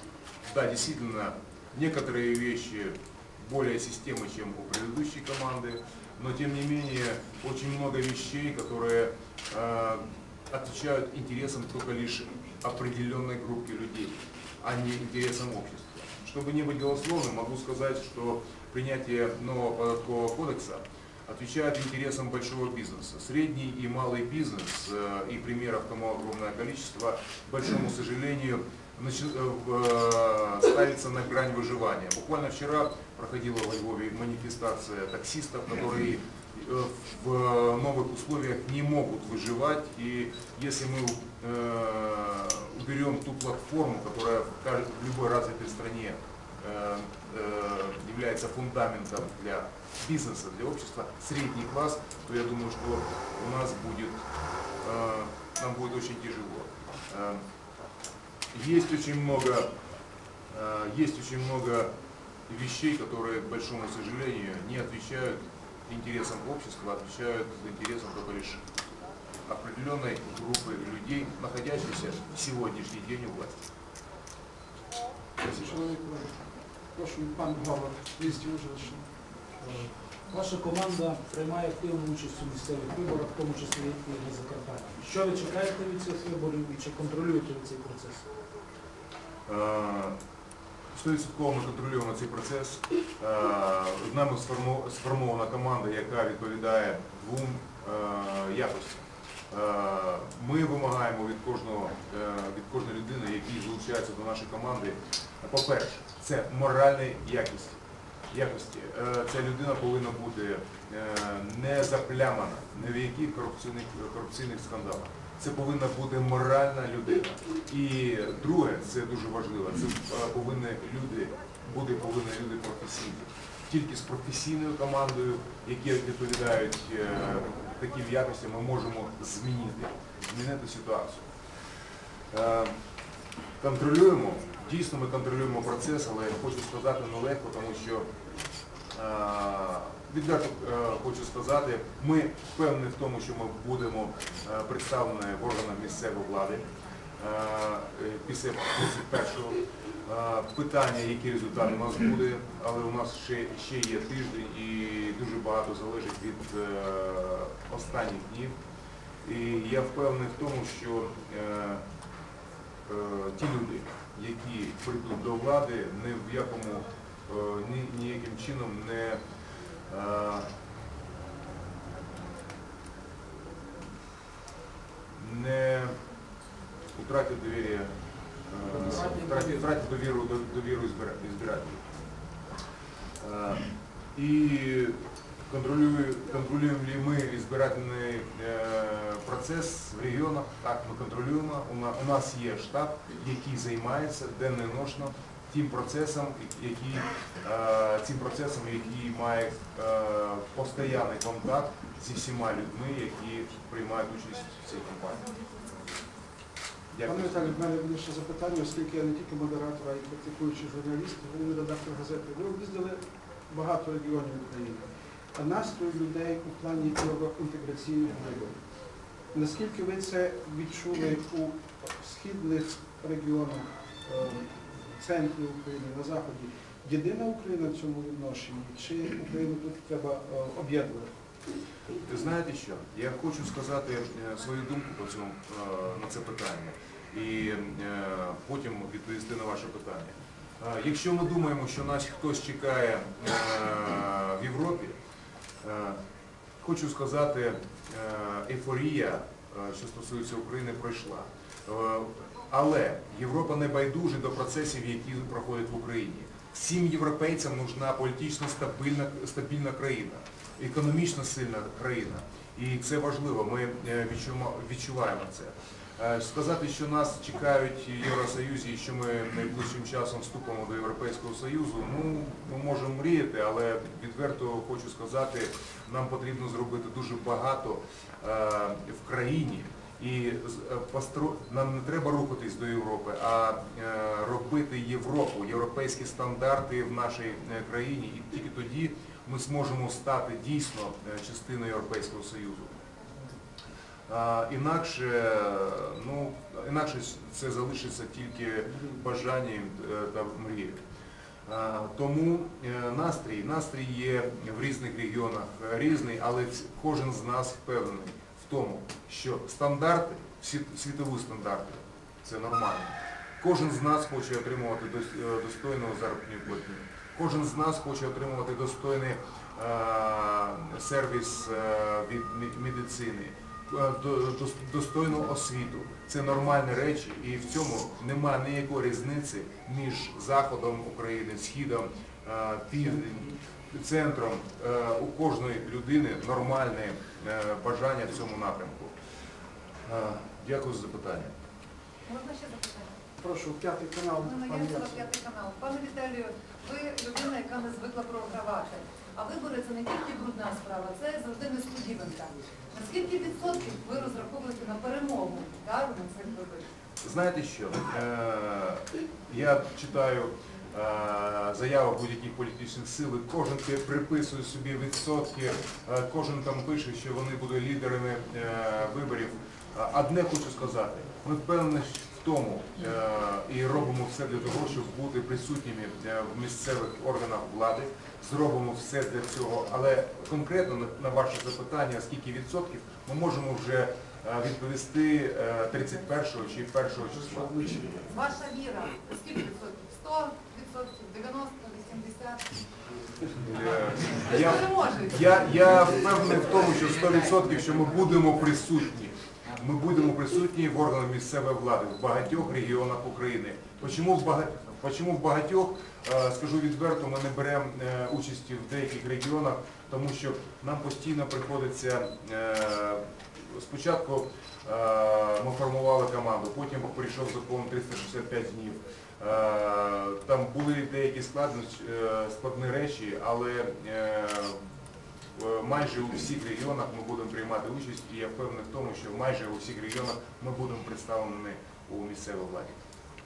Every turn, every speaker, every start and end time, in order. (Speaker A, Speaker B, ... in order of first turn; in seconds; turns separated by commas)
Speaker A: 0.5-54.2, Speaker A: 54.8-57.4, Speaker A: 58.5-59.7, Speaker A: 60.5-61.9, Speaker A: 62.5-68.6, Speaker A: 69.5-73.6, Speaker B: 75.4-76.3, Speaker A: 75.5-75.7, Speaker B: 77.0-79.1, Speaker C: 79.6-88.3, Speaker A: 89.5-90.2, Speaker A: 90.9-131.3, Speaker A: 132.3-132.8, Speaker A: 133.6-138.1, Speaker A: 138.9-146.7, Speaker A: 147.2-158.6, Speaker A: 159.2-161.8, Speaker A: 162.9-169.2, Speaker A: 169.9-170.5, Speaker A: 175.2-176.0, Speaker A: 176.9-177.9, Speaker A: 178.5-181.8, Speaker A: 183.2-205.3, Speaker A: 206.9-207.4, Speaker B: 207.1-214.8, Speaker B: 215.3-218.6, Speaker B: 219.3-231.1, Speaker A: 232.0-245.0, Speaker A: 245.6-246.0, Speaker A: 246.6-292.8, Speaker A: 294.1-300.8, Speaker A: 301.5-338.9, Speaker A: 339.9-341.3, Speaker D: 342.1-342.9, Speaker B: 343.2-345.1, Speaker D: 344.2-356.6, Speaker A: 357.0-387.5, Speaker B: 387.3-388.1, Speaker D: 388.1-392.5, Speaker A: 393.3-424.6, Speaker D: 394.7-395.0, Speaker A: 425.4-432.8